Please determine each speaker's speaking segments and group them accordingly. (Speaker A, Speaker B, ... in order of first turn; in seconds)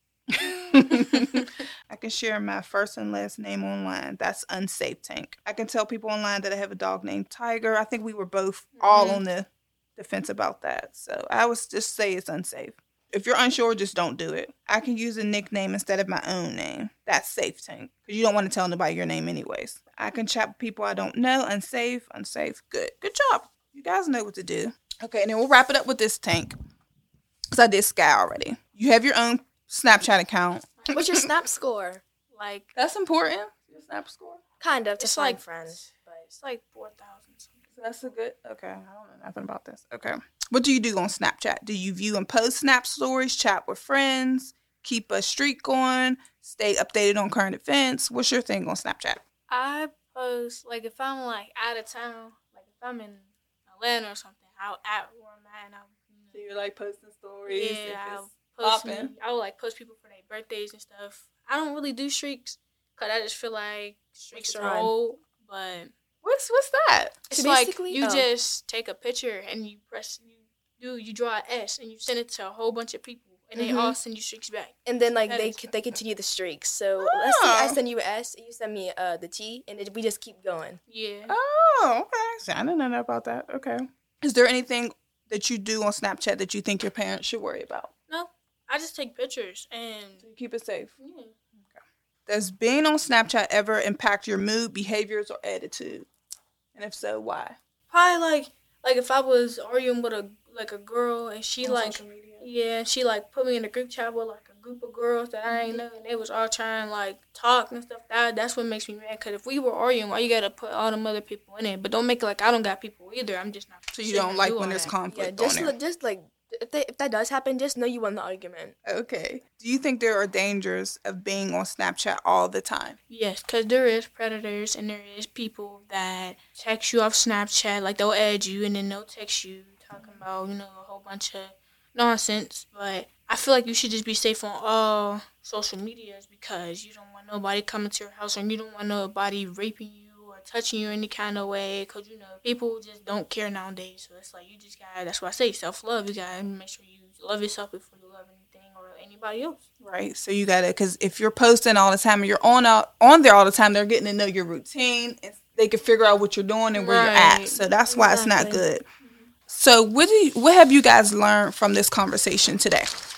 Speaker A: 0.3-26.5, 27.5-31.2, 32.7-34.4, 37.8-49.2, 56.3-59.1, 66.2-67.2, 77.0-77.8, 81.3-87.9, 90.2-90.9, 91.6-96.1, 96.7-97.6, 113.9-115.7, 118.8-123.0, 149.8-158.8, 159.5-162.9
Speaker B: 8.9-9.2, 32.3-32.7, 35.0-38.1, 49.5-56.4, 57.5-65.9, 67.3-75.6, 80.9-81.3, 88.1-90.2, 91.0-91.3, 97.9-114.9, 123.1-149.6, 156.7-157.6
Speaker C: 30.9-32.0, 34.6-35.8, 64.3-64.9, 67.3-68.3, 73.5-74.0, 74.8-80.8, 101.6-102.5, 105.5-105.8, 115.1-118.7, 157.9-158.6